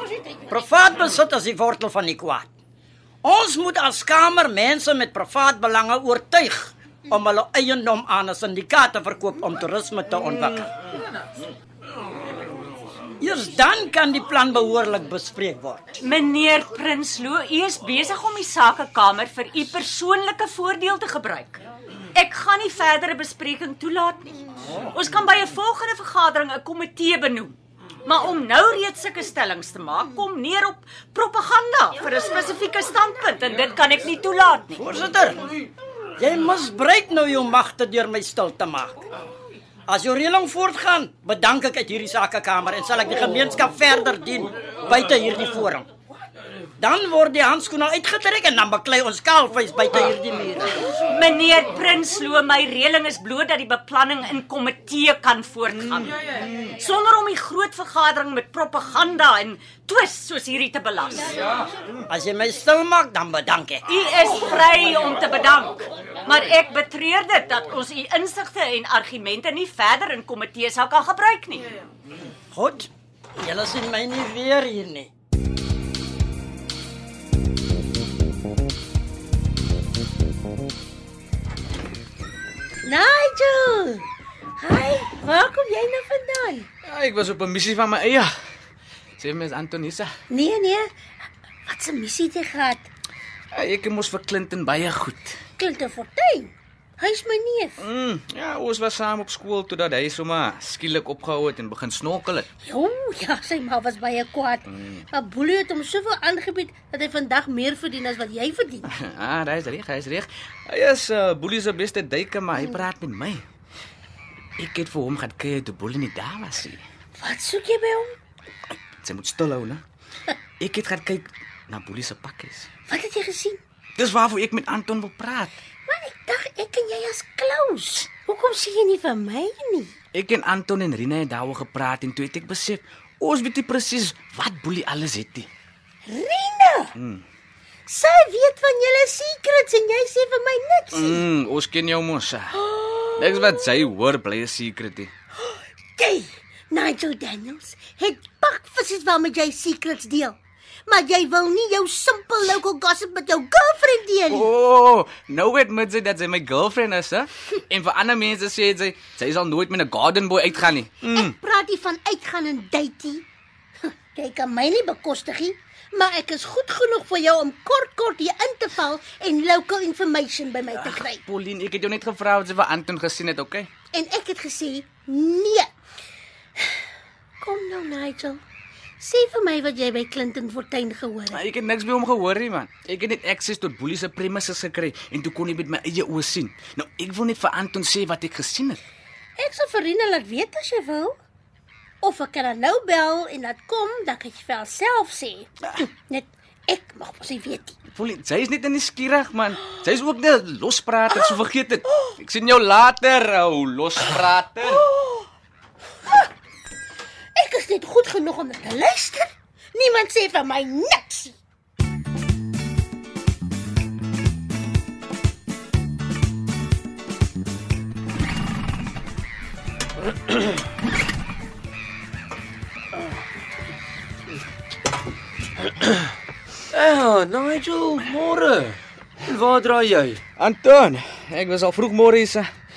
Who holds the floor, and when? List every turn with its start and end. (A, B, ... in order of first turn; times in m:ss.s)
0:00.5-0:02.5 A
0:03.2-0:10.7 A
0:13.2-0:15.9 A
0:16.0-0:21.6 B
0:22.2-0:24.4 B
0:24.9-0:34.8 B
0:34.8-0:35.4 A
0:36.2-0:39.0 A
0:39.9-0:45.9 A
0:46.8-0:50.7 A
0:51.0-1:01.4 B
1:02.1-1:03.8 A
1:03.9-1:11.7 B
1:12.5-1:12.9 A
1:13.4-1:15.1 A
1:22.8-1:26.7 C
1:26.8-1:28.3 D
1:29.2-1:30.1 D
1:30.3-1:30.9 C
1:31.7-1:32.8 C
1:33.5-1:35.4 D
1:35.6-1:37.8 C
1:37.8-1:42.5 D
1:42.6-1:48.8 C
1:44.7-1:45.0 D
1:48.8-1:53.4 D
1:54.6-1:56.8 D
1:57.2-1:58.2 C
1:59.0-1:59.8 D
2:00.6-2:02.7 D
2:02.9-2:03.6 C
2:04.0-2:05.5 D
2:05.9-2:09.9 C
2:10.1-2:15.5 D
2:16.0-2:16.9 C
2:17.0-2:17.2 D
2:17.9-2:21.2 C
2:20.9-2:22.6 D
2:22.5-2:23.5 C
2:23.2-2:25.1 D
2:25.4-2:34.5 C
2:34.3-2:41.3 D
2:41.0-2:43.3 C
2:43.8-2:51.2 C
2:50.7-2:53.7 D
2:53.9-2:55.7 C
2:56.6-2:56.8 C
2:57.4-2:58.4 C
2:59.0-3:01.4 C
3:01.3-3:08.8 D
3:09.4-3:11.2 C
3:12.0-3:17.7 C
3:17.9-3:24.8 D
3:21.1-3:21.4 C
3:24.7-3:25.2 C
3:27.3-3:31.4 C
3:46.7-3:50.2 E
3:50.4-3:52.5 D